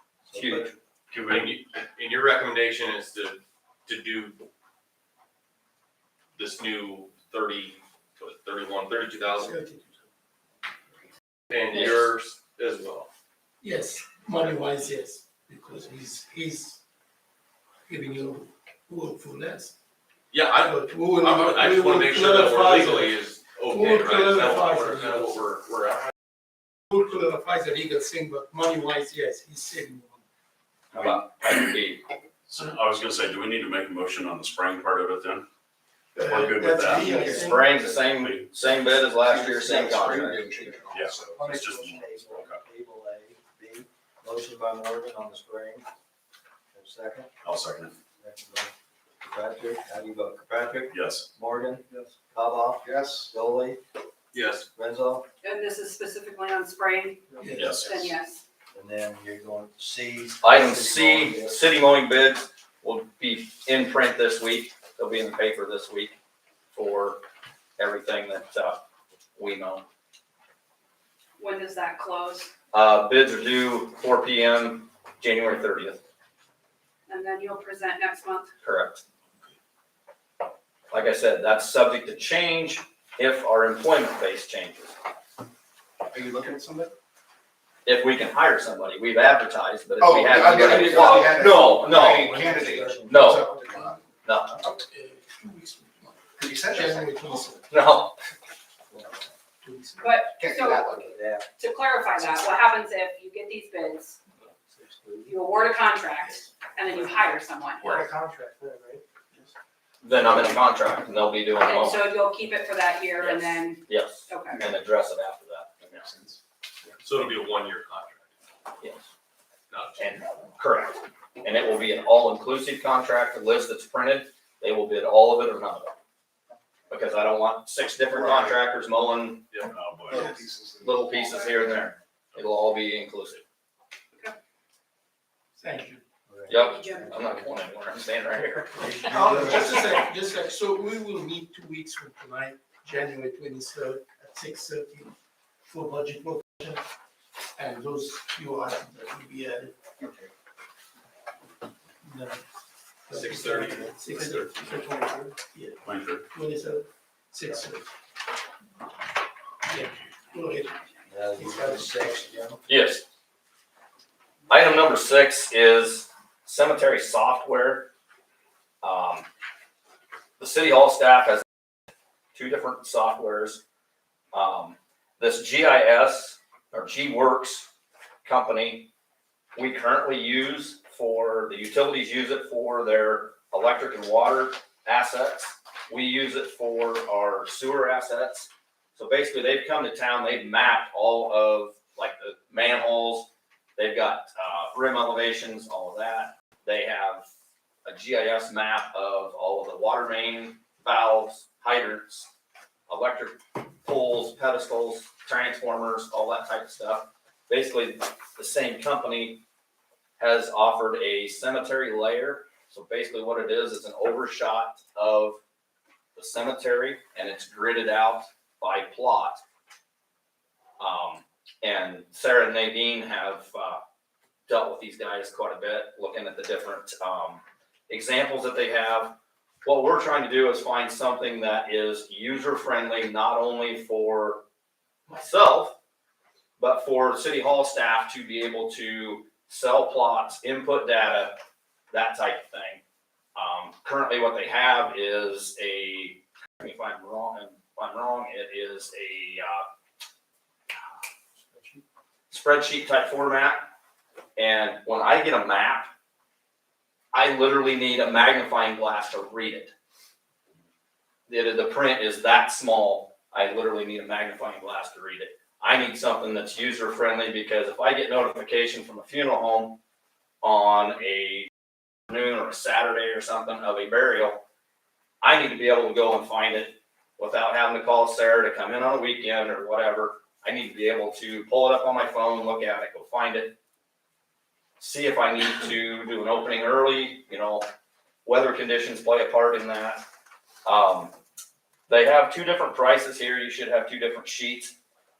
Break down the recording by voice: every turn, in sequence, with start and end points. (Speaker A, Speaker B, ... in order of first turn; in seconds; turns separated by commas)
Speaker A: 0.3-0.7, Speaker B: 0.3-0.7, Speaker C: 1.1-4.4, Speaker C: 6.4-9.6, Speaker D: 9.4-10.0, Speaker C: 11.5-13.1, Speaker D: 13.6-16.8, Speaker D: 17.9-19.7, Speaker C: 20.3-26.1, Speaker D: 20.6-25.4, Speaker D: 26.9-30.2, Speaker B: 30.9-32.0, Speaker E: 32.5-35.5, Speaker D: 36.1-37.8, Speaker E: 36.2-37.2, Speaker F: 37.0-37.5, Speaker B: 37.1-40.5, Speaker E: 37.9-38.5, Speaker F: 39.2-41.4, Speaker A: 39.8-45.9, Speaker E: 40.9-42.6, Speaker A: 46.7-47.3, Speaker E: 47.4-47.9, Speaker A: 48.2-48.7, Speaker A: 49.2-53.8, Speaker E: 50.9-51.3, Speaker F: 52.8-53.3, Speaker C: 54.3-54.7, Speaker A: 54.8-55.2, Speaker G: 55.4-57.2, Speaker D: 57.4-57.8, Speaker E: 57.5-58.1, Speaker G: 57.8-58.4, Speaker A: 58.7-61.8, Speaker B: 60.4-66.2, Speaker B: 66.7-67.2, Speaker B: 67.8-68.8, Speaker B: 69.4-69.8, Speaker G: 71.4-72.5, Speaker B: 72.7-76.0, Speaker G: 77.1-78.5, Speaker B: 78.6-79.0, Speaker B: 80.9-85.0, Speaker F: 86.1-86.9, Speaker B: 87.8-92.4, Speaker F: 90.0-94.0, Speaker D: 92.2-94.0, Speaker A: 92.3-93.2, Speaker B: 93.1-93.5, Speaker B: 94.2-94.6, Speaker D: 94.7-97.7, Speaker F: 96.4-97.3, Speaker B: 97.7-98.2, Speaker A: 98.9-99.2, Speaker D: 99.6-100.2, Speaker G: 100.0-100.9, Speaker F: 100.2-101.1, Speaker A: 100.9-101.5, Speaker G: 101.6-104.2, Speaker A: 104.8-105.3, Speaker G: 105.3-107.9, Speaker D: 106.2-107.4, Speaker F: 107.8-109.0, Speaker B: 110.0-112.0, Speaker G: 111.6-114.5, Speaker B: 113.2-116.0, Speaker F: 115.8-116.4, Speaker C: 117.0-118.2, Speaker B: 118.8-119.1, Speaker C: 119.7-120.2, Speaker B: 120.0-125.9, Speaker B: 126.9-129.5, Speaker E: 129.7-130.3, Speaker F: 130.1-131.2, Speaker D: 130.2-130.4, Speaker B: 130.8-133.4, Speaker G: 131.1-131.6, Speaker D: 135.6-136.0, Speaker A: 136.3-137.5, Speaker B: 136.5-139.1, Speaker G: 136.6-137.1, Speaker D: 139.1-145.2, Speaker D: 145.7-146.8, Speaker D: 147.6-149.7, Speaker D: 152.0-152.4, Speaker D: 153.1-157.9, Speaker C: 153.1-154.9, Speaker E: 155.8-156.2, Speaker D: 159.7-160.8, Speaker A: 161.1-162.6, Speaker D: 161.3-161.8, Speaker B: 162.7-163.0, Speaker B: 164.5-167.9, Speaker B: 168.8-169.3, Speaker B: 170.4-171.4, Speaker B: 172.3-173.6, Speaker B: 174.3-177.7, Speaker B: 178.2-178.9, Speaker B: 179.6-197.3, Speaker B: 197.8-202.3, Speaker B: 202.9-209.4, Speaker B: 210.2-215.4, Speaker B: 216.2-219.4, Speaker B: 220.8-223.8, Speaker B: 224.5-234.4, Speaker B: 235.1-235.8, Speaker B: 236.6-241.4, Speaker B: 241.9-242.8, Speaker B: 243.3-249.7, Speaker B: 252.3-253.7, Speaker B: 254.4-255.9, Speaker B: 257.1-259.7, Speaker B: 261.3-269.8, Speaker B: 270.4-271.5, Speaker B: 272.1-274.4, Speaker B: 275.2-283.6, Speaker B: 284.8-287.7, Speaker B: 288.2-290.1, Speaker B: 290.6-291.1, Speaker B: 291.9-294.8